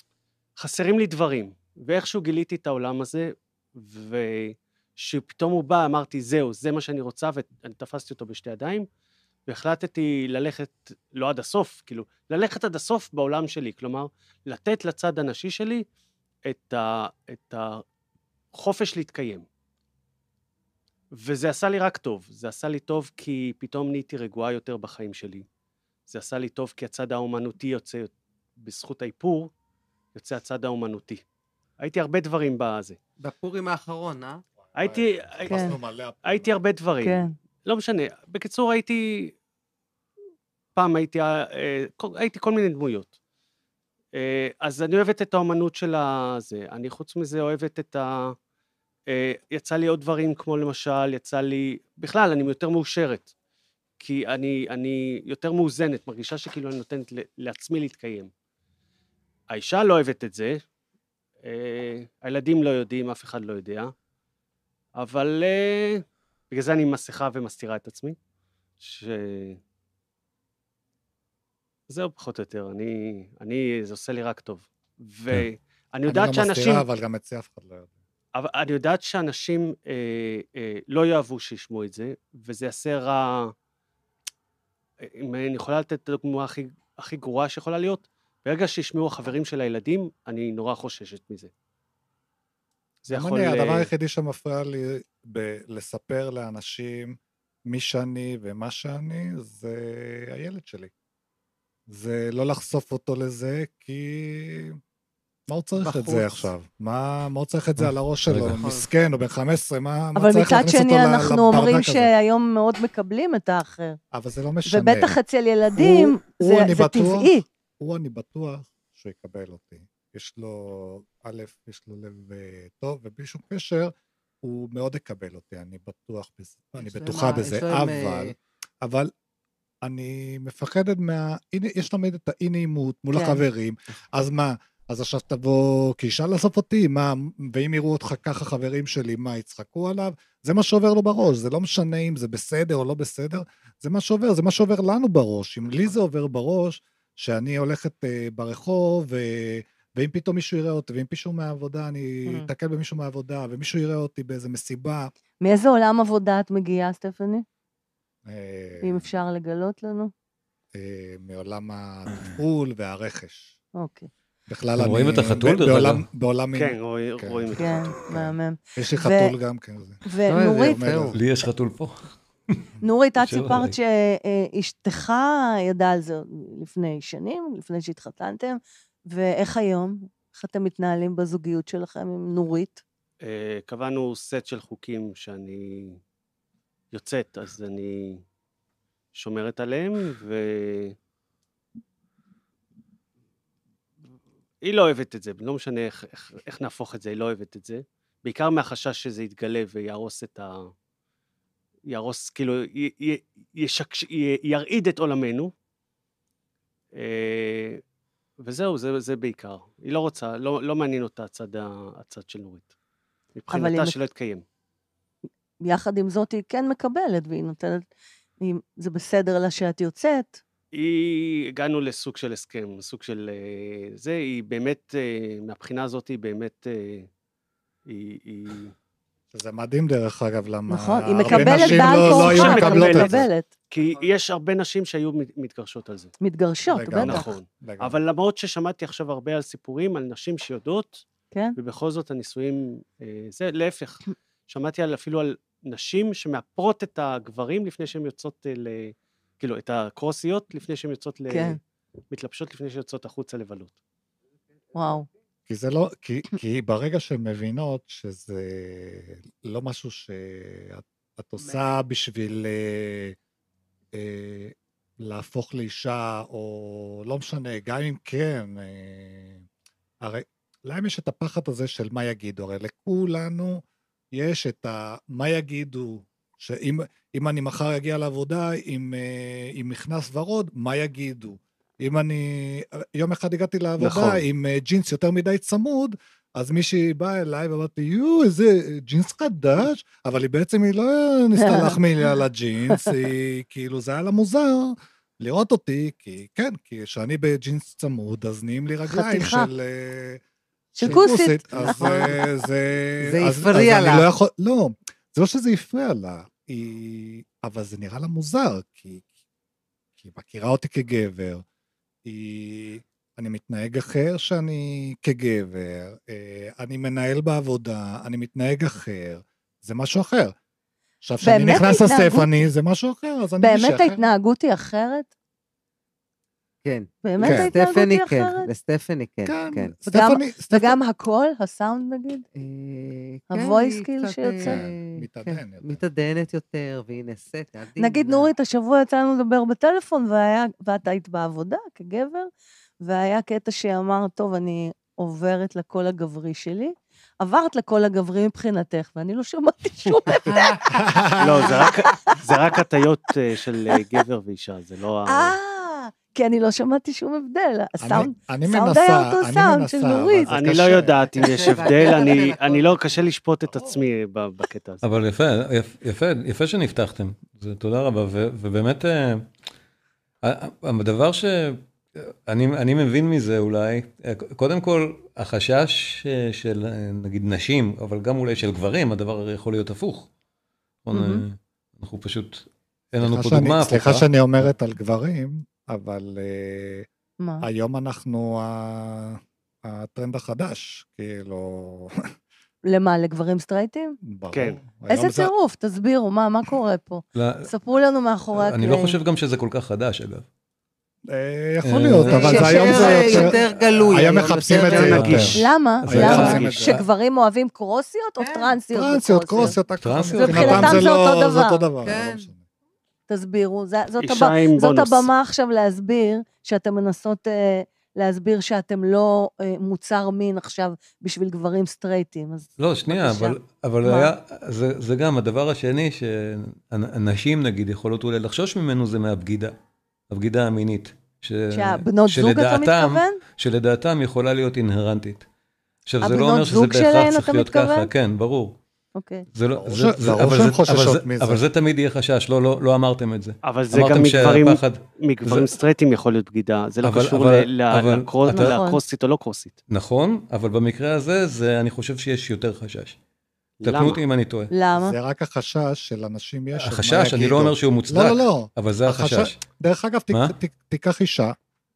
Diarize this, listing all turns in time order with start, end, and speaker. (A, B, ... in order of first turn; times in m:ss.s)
0:00.6-0:08.9 A
0:09.5-0:15.8 A
0:16.5-0:17.8 A
0:18.5-0:19.5 A
0:21.1-0:25.5 A
0:26.1-0:29.5 A
0:30.2-0:31.2 A
0:31.8-0:33.0 A
0:33.2-0:34.4 B
0:34.7-0:36.5 C
0:34.8-0:39.3 A
0:35.5-0:35.8 D
0:37.0-0:37.3 D
0:40.8-0:43.1 A
0:44.1-0:48.4 A
0:49.1-0:53.3 A
0:54.0-0:58.3 A
0:59.5-1:00.6 A
1:01.4-1:03.9 A
1:05.0-1:08.2 A
1:08.8-1:09.6 A
1:11.9-1:16.8 A
1:16.1-1:17.9 C
1:18.4-1:23.5 A
1:25.0-1:31.5 A
1:33.1-1:33.9 A
1:33.1-1:37.2 C
1:37.7-1:40.9 C
1:41.9-1:44.8 C
1:45.5-1:52.1 C
1:45.8-1:46.5 B
1:47.8-1:48.6 E
1:48.4-1:48.9 B
1:50.2-1:54.0 D
1:54.1-1:55.2 C
1:54.7-1:57.4 D
1:55.8-2:09.1 C
2:06.8-2:08.4 B
2:09.8-2:35.1 C
2:13.1-2:13.4 D
2:35.4-2:37.4 D
2:38.2-2:39.1 C
2:38.8-2:40.1 D
2:40.7-2:43.6 C
2:43.8-2:44.1 D
2:44.5-2:51.2 C
2:44.8-2:46.0 E
2:46.6-2:48.0 A
2:47.6-2:49.3 D
2:50.0-2:50.9 D
2:50.3-2:51.1 B
2:51.1-2:52.6 E
2:52.8-3:02.8 D
2:53.2-2:53.8 E
3:03.2-3:06.0 A
3:06.9-3:08.2 A
3:09.2-3:11.0 A
3:14.6-3:20.7 A
3:21.9-3:25.5 A
3:27.0-3:27.8 A
3:28.4-3:32.7 A
3:33.4-3:34.4 A
3:33.5-3:34.0 D
3:35.6-3:37.8 D
3:38.4-3:40.4 D
3:40.7-3:47.1 A
3:47.9-3:48.7 A
3:49.3-3:53.3 C
3:50.7-3:53.5 D
3:51.4-3:56.1 A
3:56.2-3:57.2 D
3:56.7-3:58.0 C
3:57.0-4:11.6 A
4:11.3-4:11.6 D
4:12.1-4:13.8 A
4:14.8-4:15.1 D
4:15.5-4:23.2 C
4:23.9-4:29.5 C
4:30.0-4:33.6 C
4:34.1-5:00.2 C
4:51.4-4:51.8 D
4:58.9-4:59.5 D
5:00.8-5:02.1 D
5:00.8-5:09.1 C
5:00.8-5:02.2 B
5:03.0-5:04.1 B
5:10.0-5:11.4 C
5:12.0-5:20.3 C
5:21.0-5:24.1 C
5:21.2-5:22.4 D
5:23.4-5:25.1 D
5:26.6-5:29.8 B
5:27.0-5:28.5 D
5:27.2-5:27.5 C
5:29.2-5:30.8 C
5:29.9-5:32.2 D
5:32.4-5:38.3 B
5:33.3-5:34.6 D
5:34.4-5:35.8 C
5:37.8-5:42.3 D
5:42.8-5:50.8 D
5:50.3-5:50.7 B
5:50.3-5:51.6 C
5:51.2-5:55.4 A
5:51.5-5:52.2 D
5:55.1-6:00.3 D
5:57.8-6:01.7 C
6:00.3-6:04.8 A
6:01.0-6:03.1 B
6:03.5-6:03.8 C
6:04.8-6:09.3 E
6:10.2-6:20.1 E
6:20.8-6:24.1 E
6:20.9-6:21.2 D
6:23.0-6:26.9 C
6:27.2-6:27.5 D
6:27.4-6:32.0 C
6:32.6-6:34.0 D
6:34.0-6:35.3 C
6:34.3-6:34.6 A
6:34.9-6:39.0 D
6:37.2-6:37.5 E
6:38.3-6:40.3 E
6:41.1-6:46.8 C
6:41.6-6:43.3 E
6:42.0-6:45.4 B
6:42.3-6:43.2 D
6:44.5-6:45.2 A
6:44.7-6:46.9 E
6:45.3-6:49.6 D
6:46.1-6:46.4 B
6:48.2-6:48.6 B
6:48.7-6:52.4 C
6:49.8-6:50.8 E
6:50.2-6:51.6 D
6:51.8-6:52.3 B
6:53.1-7:04.1 D
6:54.0-6:55.1 A
7:02.6-7:09.6 E
7:10.1-7:15.2 E
7:11.5-7:13.2 D
7:15.9-7:18.6 E
7:16.0-7:17.9 D
7:19.0-7:19.3 D
7:19.3-7:25.6 E
7:19.6-7:21.4 C
7:23.4-7:29.6 A
7:26.8-7:28.6 E
7:28.3-7:28.8 D
7:29.7-7:33.0 E
7:33.6-7:34.0 A
7:33.6-7:34.5 E
7:34.5-7:35.0 D
7:34.7-7:41.3 C
7:36.6-7:39.4 E